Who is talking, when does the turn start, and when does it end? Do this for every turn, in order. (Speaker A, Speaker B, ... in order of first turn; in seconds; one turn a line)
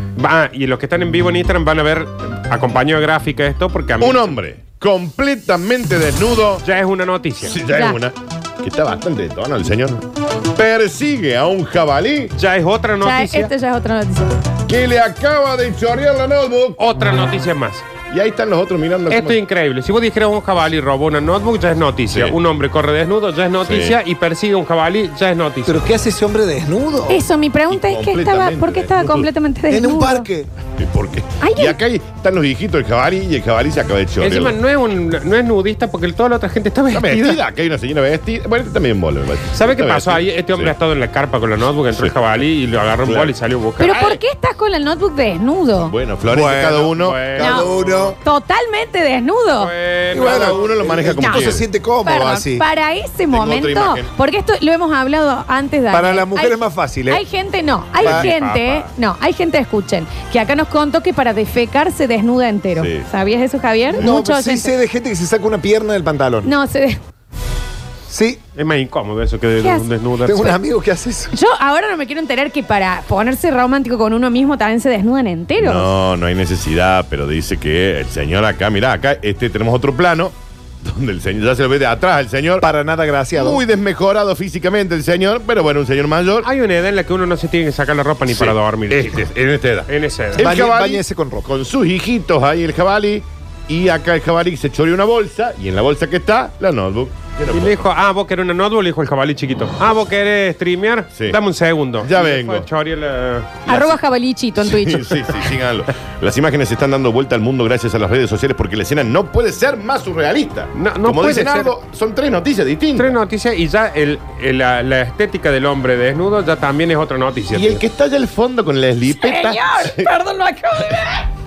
Speaker A: 0.2-4.4
Speaker B: 4.0-6.6
Speaker A: 6.6-7.6
Speaker B: 7.4-12.3
Speaker C: 7.7-8.0
Speaker A: 12.3-13.5
Speaker C: 13.0-14.3
Speaker B: 14.7-16.8
Speaker A: 16.8-17.8
Speaker B: 18.1-19.4
Speaker A: 19.1-25.8
Speaker B: 22.1-22.4
Speaker B: 23.6-24.0
Speaker D: 25.6-27.2
Speaker C: 27.1-30.3
Speaker B: 27.7-29.3
Speaker D: 29.7-30.5
Speaker B: 30.8-34.5
Speaker C: 31.4-31.8
Speaker A: 34.2-37.4
Speaker B: 36.9-40.7
Speaker A: 39.5-44.2
Speaker B: 43.0-43.3
Speaker C: 43.8-45.9
Speaker B: 45.8-47.7
Speaker A: 46.3-47.7
Speaker D: 47.3-48.2
Speaker C: 47.4-49.7
Speaker A: 49.6-50.7
Speaker D: 50.1-52.6
Speaker B: 50.1-51.7
Speaker C: 51.1-64.7
Speaker B: 53.3-54.1
Speaker D: 55.9-57.2
Speaker A: 58.0-58.9
Speaker D: 58.0-58.3
Speaker B: 62.8-63.1
Speaker D: 63.9-66.5
Speaker C: 66.4-67.0
Speaker D: 68.1-68.4
Speaker A: 68.5-70.6
Speaker C: 69.6-69.9
Speaker D: 70.2-71.3
Speaker C: 71.3-75.9
Speaker B: 75.6-82.7
Speaker D: 82.6-83.6
Speaker B: 83.3-86.5
Speaker A: 86.4-89.3
Speaker B: 88.3-97.9
Speaker A: 89.8-90.5
Speaker D: 90.4-91.5
Speaker A: 97.5-103.9
Speaker B: 101.1-101.4
Speaker B: 102.0-102.7
Speaker C: 103.7-105.3
Speaker B: 104.6-113.1
Speaker A: 110.7-111.7
Speaker A: 112.9-117.8
Speaker B: 117.5-120.1
Speaker C: 119.1-121.3